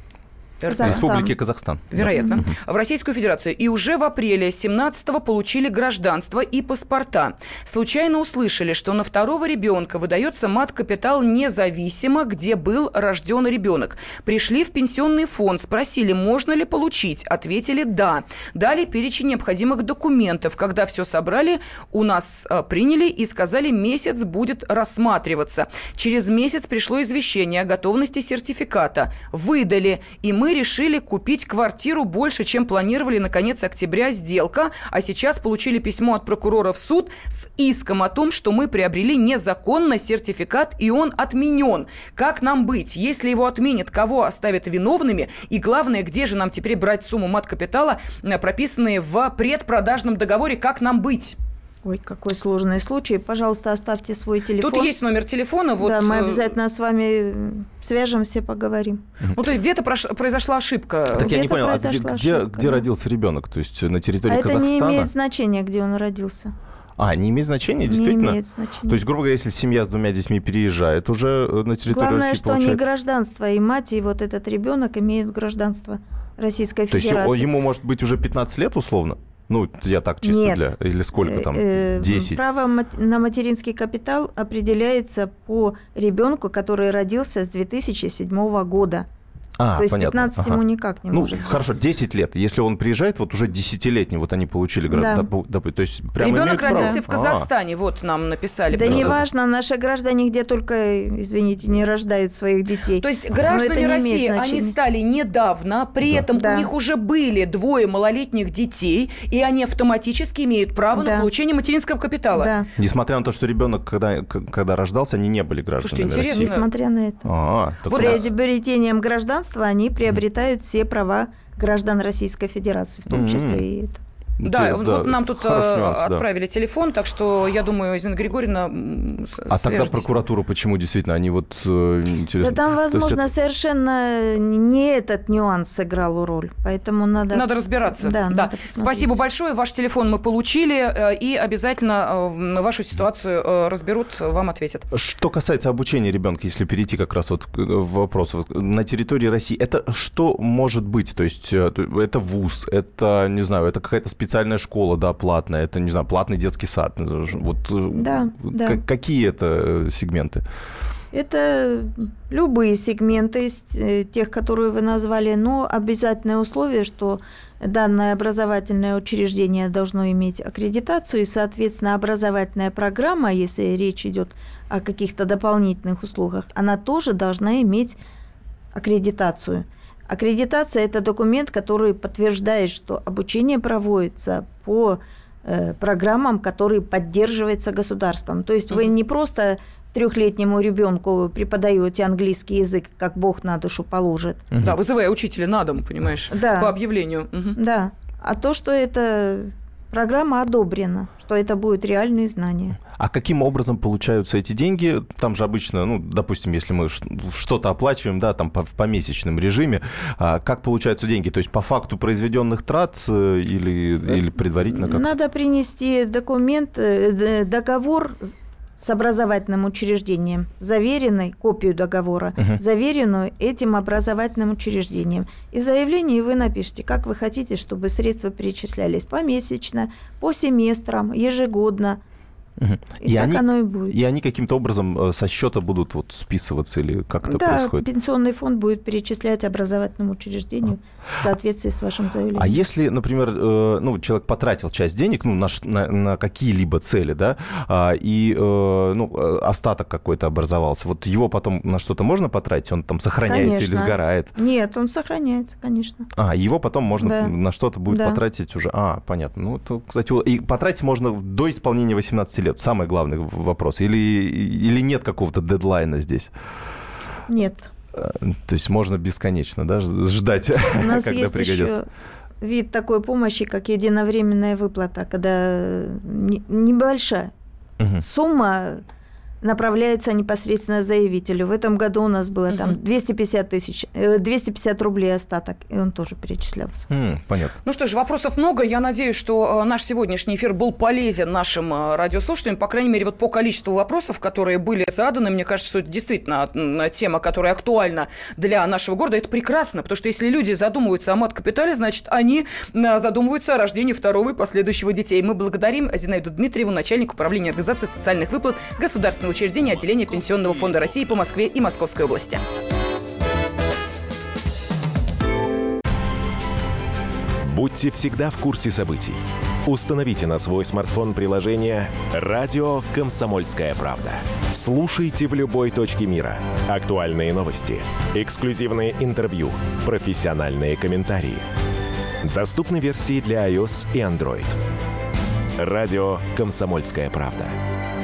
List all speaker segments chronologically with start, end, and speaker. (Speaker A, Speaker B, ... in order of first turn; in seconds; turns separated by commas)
Speaker A: 0.6-1.1, Speaker B: 0.7-1.3, Speaker C: 0.8-2.5, Speaker A: 1.9-51.4, Speaker B: 2.1-2.4, Speaker B: 51.9-54.9, Speaker A: 54.6-56.5, Speaker B: 55.8-59.0, Speaker A: 59.4-61.3, Speaker C: 61.1-65.1, Speaker B: 61.2-62.9, Speaker B: 64.3-66.5, Speaker C: 67.0-72.8, Speaker B: 67.9-69.0, Speaker B: 71.9-77.5, Speaker C: 76.9-82.4, Speaker B: 80.2-89.1, Speaker C: 89.6-97.5, Speaker B: 89.8-91.5, Speaker B: 94.9-95.3, Speaker A: 96.2-99.2, Speaker B: 96.6-97.0, Speaker B: 98.7-104.8, Speaker C: 98.8-99.2, Speaker A: 103.0-112.5, Speaker B: 106.3-106.7, Speaker B: 111.0-111.3, Speaker B: 112.3-112.7, Speaker C: 112.8-116.5, Speaker A: 115.8-116.7, Speaker B: 116.3-117.3, Speaker C: 117.2-118.2, Speaker A: 117.9-118.2, Speaker B: 117.9-124.0, Speaker C: 123.1-123.6, Speaker C: 124.4-126.2, Speaker A: 124.4-130.1, Speaker C: 129.5-133.3, Speaker B: 132.4-137.5, Speaker A: 137.3-144.9, Speaker B: 138.0-139.1, Speaker C: 144.9-160.4, Speaker B: 157.9-158.8, Speaker B: 161.1-178.0, Speaker B: 178.7-194.4, Speaker A: 194.6-197.6, Speaker B: 196.3-196.8, Speaker B: 197.6-202.8, Speaker C: 203.0-215.1, Speaker B: 214.7-232.0, Speaker C: 232.6-237.8, Speaker B: 233.0-234.0, Speaker B: 237.2-242.6, Speaker C: 242.3-254.3, Speaker B: 253.3-256.1, Speaker C: 256.1-266.3, Speaker B: 257.0-257.3, Speaker B: 257.9-258.2, Speaker B: 267.3-267.7, Speaker C: 267.9-271.8, Speaker B: 270.8-271.9, Speaker B: 272.4-277.3, Speaker B: 278.0-278.8, Speaker B: 279.4-286.9, Speaker A: 282.5-282.8, Speaker C: 286.9-287.6, Speaker A: 287.6-312.4, Speaker D: 317.4-331.4, Speaker D: 332.2-334.6, Speaker D: 335.6-337.6